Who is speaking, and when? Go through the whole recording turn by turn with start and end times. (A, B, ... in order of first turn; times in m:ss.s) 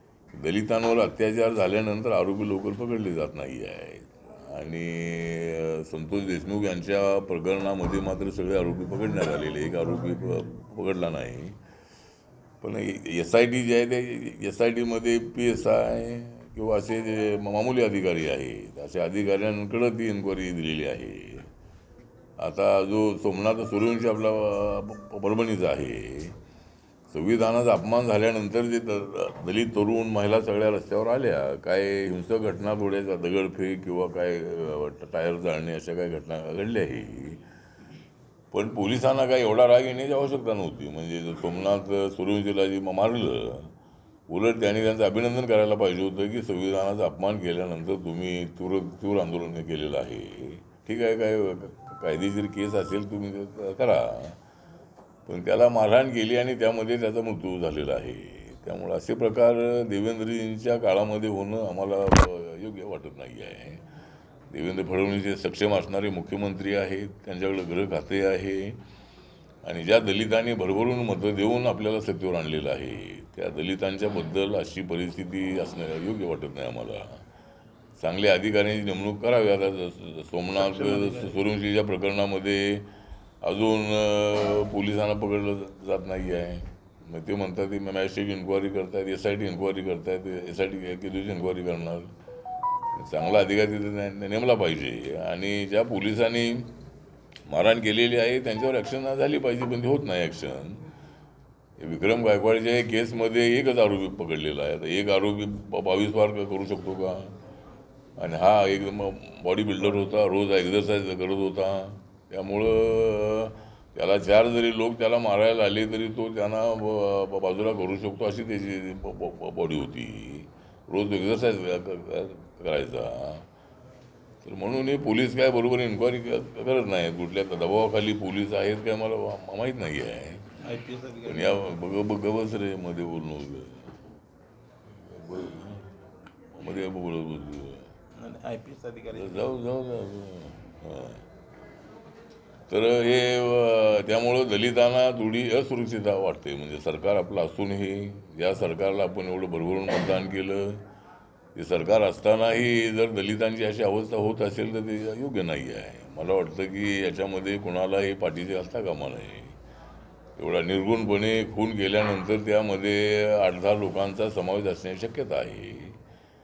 0:00.3-0:11.6 A
0:12.6-0:21.5 A
0:22.4-0:26.4 A
0:27.1-0:37.4 A
0:38.5-0:43.7 A
0:44.3-0:54.4 A
0:55.3-1:03.8 A
1:04.5-1:08.8 A
1:09.6-1:17.2 A
1:18.0-1:22.9 A
1:20.9-1:21.3 B
1:23.4-1:32.1 A
1:32.9-1:36.7 A
1:37.5-1:40.9 A
1:41.8-1:47.4 A
1:48.2-2:03.5 A
2:04.4-2:10.6 A
2:10.6-2:11.6 B
2:11.2-2:13.9 A
2:14.9-2:15.9 A
2:16.5-2:17.9 A
2:18.2-2:19.5 B
2:19.1-2:21.3 A
2:22.7-2:30.9 A
2:31.6-2:39.6 A
2:40.4-2:46.0 A